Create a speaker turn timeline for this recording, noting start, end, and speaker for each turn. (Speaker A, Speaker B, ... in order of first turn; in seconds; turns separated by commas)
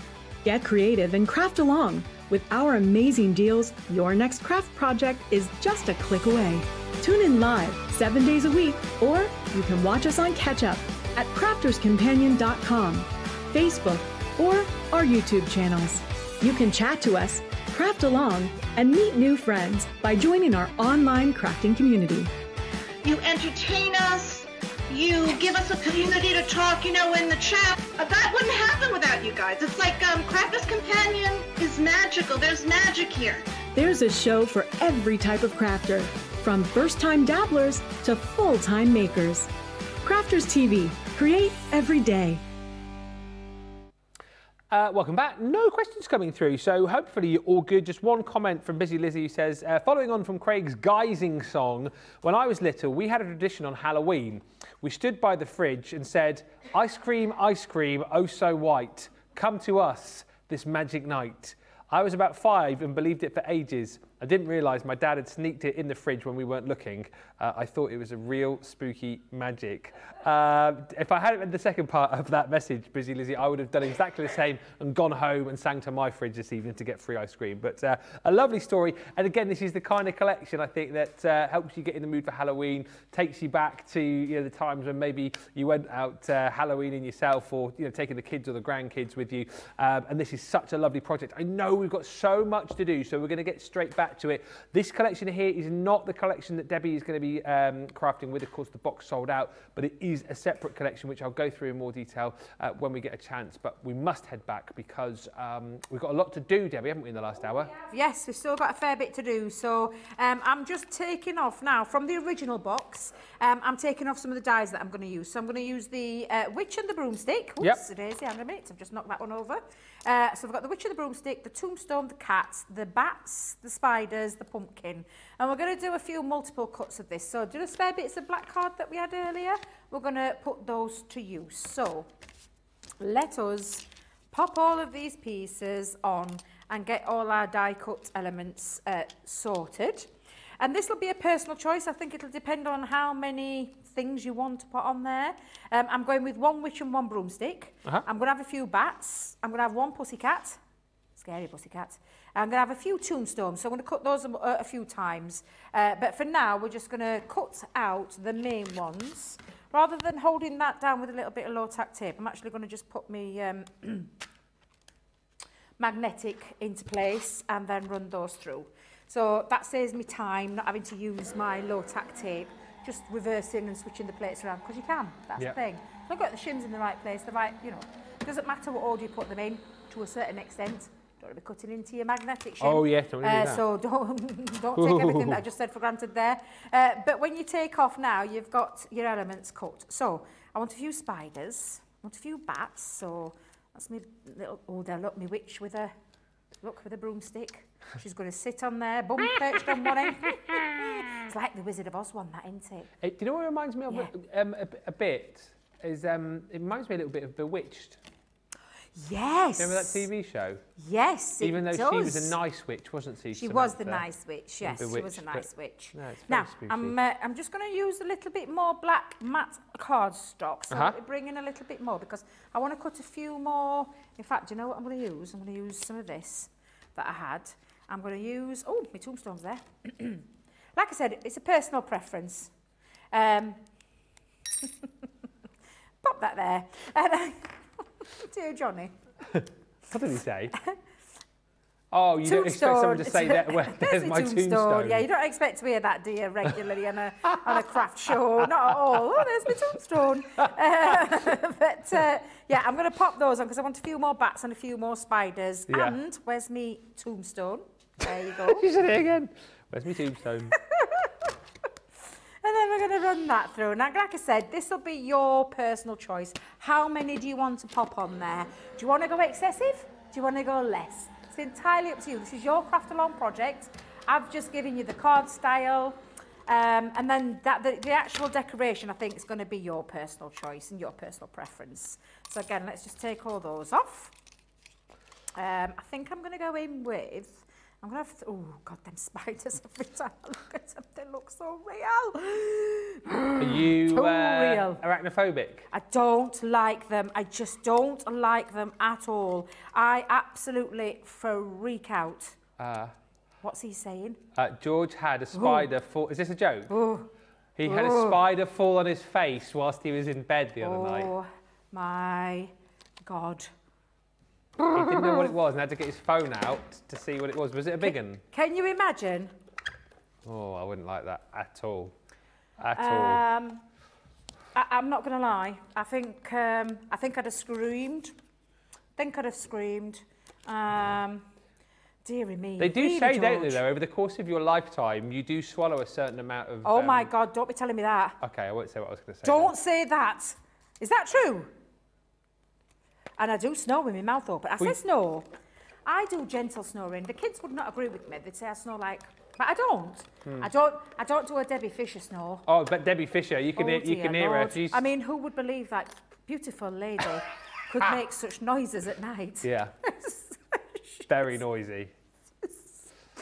Speaker A: 0.4-22.3, Speaker B: 23.0-33.5, Speaker A: 33.7-39.5, Speaker A: 40.0-42.4, Speaker C: 44.7-107.7, Speaker D: 107.8-132.1, Speaker D: 133.0-150.6, Speaker D: 151.2-164.1, Speaker D: 165.8-195.9, Speaker C: 182.6-183.6, Speaker C: 184.8-185.4, Speaker D: 196.6-202.9, Speaker C: 199.7-200.6, Speaker C: 203.0-208.0, Speaker D: 208.9-210.0, Speaker C: 209.6-210.6, Speaker D: 210.8-212.3, Speaker C: 211.4-214.1, Speaker D: 213.3-230.2, Speaker C: 214.6-217.0, Speaker C: 220.7-221.0, Speaker D: 230.8-232.5, Speaker D: 233.1-233.6, Speaker D: 236.0-239.0, Speaker C: 239.3-240.5, Speaker C: 241.9-245.1, Speaker D: 242.2-258.7, Speaker C: 247.3-247.7, Speaker C: 248.4-249.5, Speaker C: 250.4-251.0, Speaker C: 255.7-256.0, Speaker C: 258.4-260.6, Speaker D: 260.5-261.1, Speaker D: 262.4-284.1, Speaker D: 285.3-294.8, Speaker C: 293.4-295.7, Speaker D: 295.7-302.4, Speaker C: 302.6-302.9, Speaker D: 303.4-304.2, Speaker C: 304.3-306.8, Speaker D: 305.3-305.7, Speaker D: 306.7-307.1, Speaker C: 307.6-311.1, Speaker D: 307.6-308.2, Speaker D: 310.6-312.5, Speaker D: 313.0-313.5, Speaker D: 314.6-315.3, Speaker C: 314.7-318.2, Speaker D: 317.8-319.3, Speaker C: 320.2-321.9, Speaker C: 322.6-323.2, Speaker D: 322.8-323.6, Speaker D: 324.6-328.1, Speaker D: 329.0-331.3, Speaker D: 332.0-333.6, Speaker C: 332.6-337.1, Speaker D: 336.6-338.2, Speaker C: 338.2-339.5, Speaker D: 339.2-341.5, Speaker D: 343.2-345.3, Speaker D: 345.9-352.5, Speaker C: 352.5-354.9, Speaker D: 353.6-361.4, Speaker C: 359.4-359.7, Speaker C: 361.1-361.9, Speaker D: 362.4-362.7